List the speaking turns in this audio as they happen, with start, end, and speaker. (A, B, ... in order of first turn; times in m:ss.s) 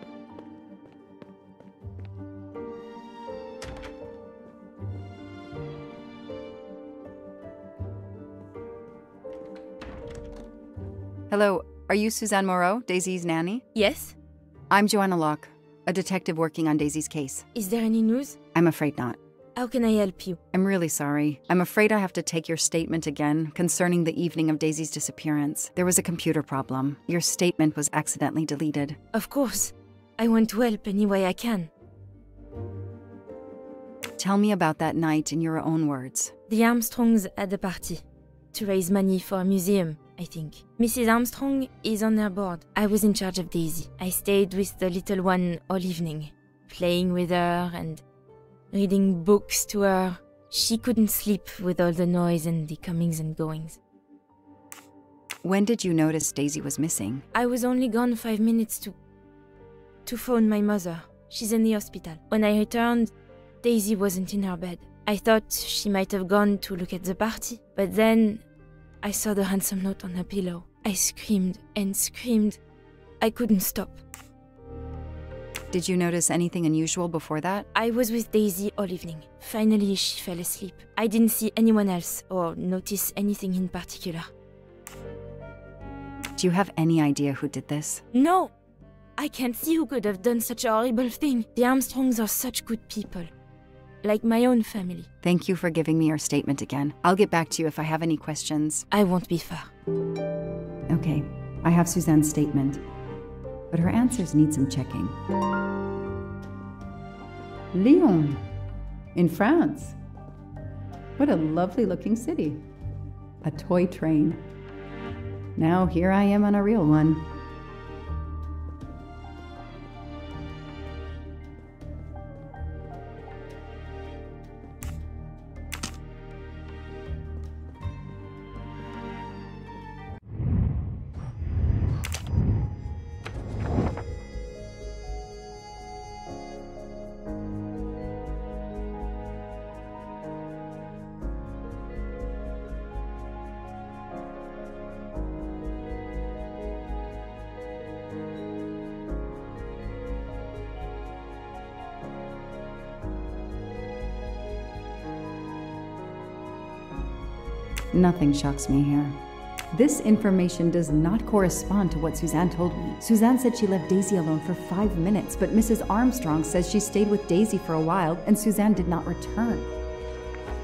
0:11.3-0:13.6 A
0:13.7-0:14.2 B
0:14.7-0:17.5 A
0:17.5-0:18.4 B
0:18.5-0:19.2 A
0:19.6-0:20.4 B
0:20.5-0:29.0 A
0:29.1-0:31.7 B
0:34.2-0:36.4 A
0:36.5-0:48.0 B
0:48.7-0:53.8 B
0:55.4-0:57.3 A
0:57.3-0:59.0 B
1:00.0-1:08.4 B
1:09.0-1:12.6 B
1:13.2-1:14.0 B
1:15.7-1:17.7 A
1:17.7-1:24.3 B
1:26.4-1:28.0 A
1:28.1-1:28.5 B
1:29.2-1:33.3 B
1:34.0-1:35.1 B
1:35.2-1:38.9 A
1:38.9-1:39.7 B
1:40.9-1:42.8 A
1:43.7-1:45.2 A
1:47.7-1:48.5 A
1:49.1-1:50.0 A
1:51.2-1:52.6 A
1:53.4-1:54.4 A
1:55.6-1:57.3 A
2:37.9-2:39.2 A
2:39.7-2:49.7 A